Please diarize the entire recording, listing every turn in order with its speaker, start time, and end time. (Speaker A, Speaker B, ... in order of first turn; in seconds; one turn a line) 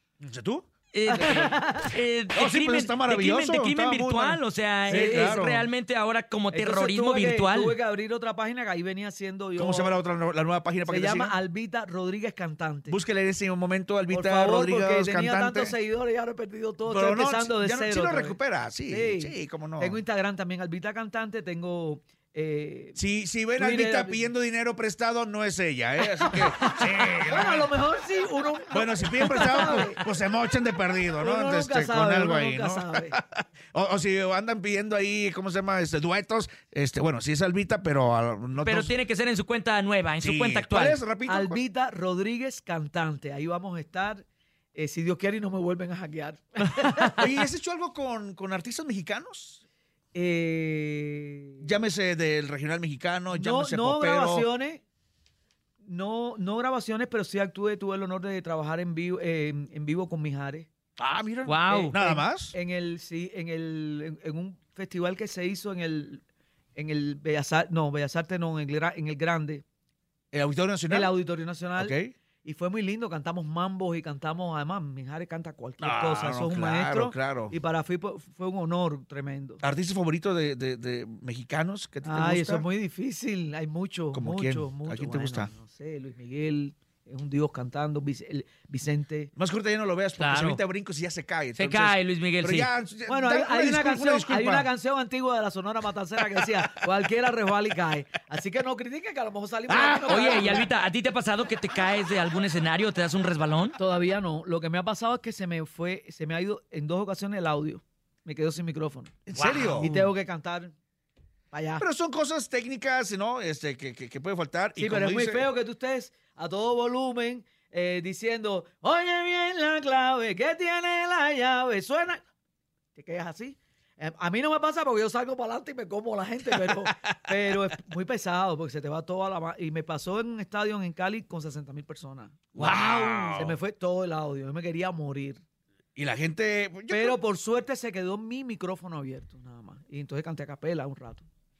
Speaker A: 0.2-1.5
Speaker B: 0.9-7.8
Speaker C: 1.1-1.9
Speaker A: 2.3-5.7
Speaker C: 4.9-5.4
Speaker C: 6.5-10.0
Speaker A: 9.6-11.3
Speaker C: 10.8-13.0
Speaker A: 12.9-15.8
Speaker C: 14.1-23.0
Speaker A: 16.9-20.0
Speaker A: 22.9-27.8
Speaker C: 23.5-24.3
Speaker C: 26.1-30.0
Speaker A: 28.7-38.9
Speaker C: 31.2-33.2
Speaker B: 38.5-41.0
Speaker A: 40.2-41.6
Speaker C: 41.2-44.2
Speaker C: 44.7-47.3
Speaker A: 47.2-49.6
Speaker C: 50.1-51.6
Speaker A: 51.6-54.5
Speaker C: 53.3-54.8
Speaker C: 55.8-60.7
Speaker A: 61.0-62.5
Speaker B: 61.4-61.9
Speaker C: 61.7-66.2
Speaker C: 66.8-69.6
Speaker A: 70.3-71.1
Speaker C: 70.9-79.6
Speaker A: 71.8-72.1
Speaker A: 75.8-77.5
Speaker A: 79.6-82.6
Speaker C: 82.0-89.3
Speaker A: 84.1-85.5
Speaker A: 89.3-94.7
Speaker B: 90.2-90.6
Speaker B: 91.5-92.7
Speaker C: 93.0-100.7
Speaker A: 99.7-100.0
Speaker B: 99.7-103.8
Speaker C: 103.8-109.1
Speaker A: 109.3-109.9
Speaker B: 109.3-110.1
Speaker C: 109.7-110.7
Speaker C: 111.5-111.8
Speaker A: 111.8-115.5
Speaker C: 114.8-122.2
Speaker C: 123.0-132.5
Speaker A: 126.7-127.5
Speaker A: 132.5-133.6
Speaker B: 132.6-133.4
Speaker C: 133.3-135.4
Speaker A: 135.9-137.2
Speaker C: 136.9-141.2